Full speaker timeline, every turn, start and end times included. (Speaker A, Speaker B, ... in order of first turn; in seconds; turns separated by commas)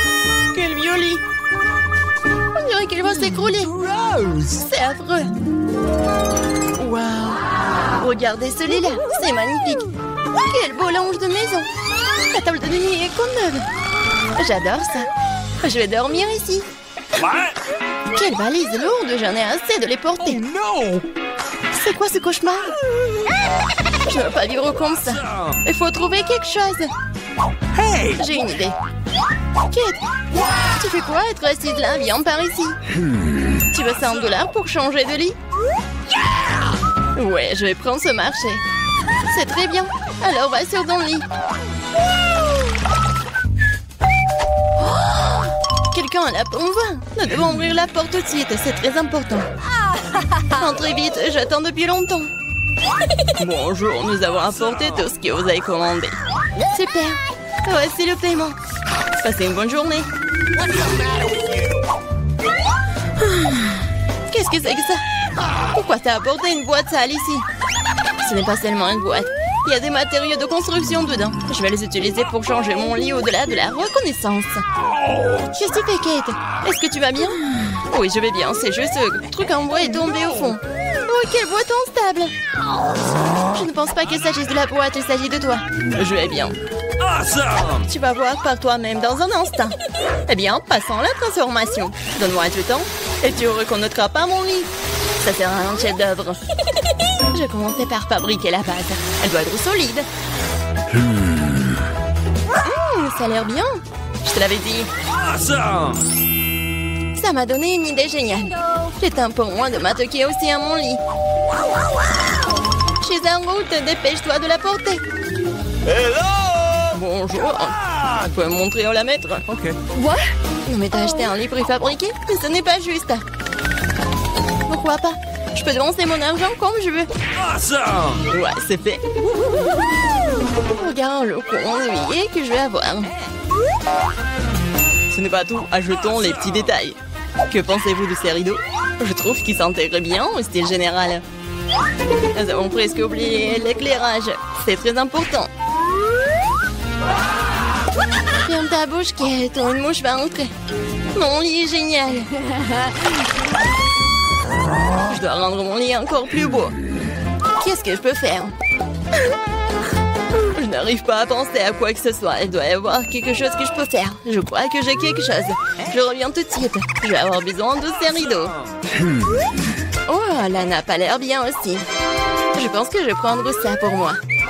Speaker A: 0.5-1.2, Speaker A: 2.5-3.7, Speaker B: 3.6-4.5, Speaker A: 4.4-5.3, Speaker A: 6.8-7.4, Speaker A: 8.0-13.7, Speaker A: 14.4-15.1, Speaker A: 15.6-16.7, Speaker A: 18.1-20.4, Speaker B: 20.2-21.1, Speaker A: 21.7-22.8, Speaker A: 24.1-26.9, Speaker B: 27.7-28.3, Speaker A: 28.2-28.8, Speaker A: 29.7-30.0, Speaker A: 30.6-32.8, Speaker A: 33.7-35.4, Speaker A: 37.2-38.6, Speaker A: 39.3-41.3, Speaker A: 45.9-49.5, Speaker A: 50.5-52.3, Speaker A: 53.4-56.2, Speaker A: 56.7-58.6, Speaker A: 59.2-60.1, Speaker B: 60.8-61.5, Speaker A: 63.4-63.7, Speaker A: 64.3-65.0, Speaker A: 65.7-67.5, Speaker A: 68.2-74.7, Speaker A: 75.5-82.3, Speaker A: 83.5-86.6, Speaker B: 87.0-87.8, Speaker A: 87.8-89.8, Speaker A: 90.3-96.4, Speaker A: 97.3-100.1, Speaker A: 102.6-104.9, Speaker B: 105.2-106.0, Speaker A: 107.2-111.0, Speaker A: 113.0-115.0, Speaker B: 115.8-116.8, Speaker A: 116.9-123.2, Speaker B: 119.5-119.8, Speaker A: 124.7-127.1, Speaker B: 127.3-128.3, Speaker A: 128.3-129.0, Speaker A: 130.7-133.1, Speaker A: 135.1-141.2, Speaker A: 142.3-145.5, Speaker A: 148.4-150.5, Speaker A: 151.1-152.8, Speaker A: 155.1-156.8, Speaker A: 157.6-158.5, Speaker A: 160.4-168.6, Speaker A: 170.1-171.8, Speaker A: 172.5-174.2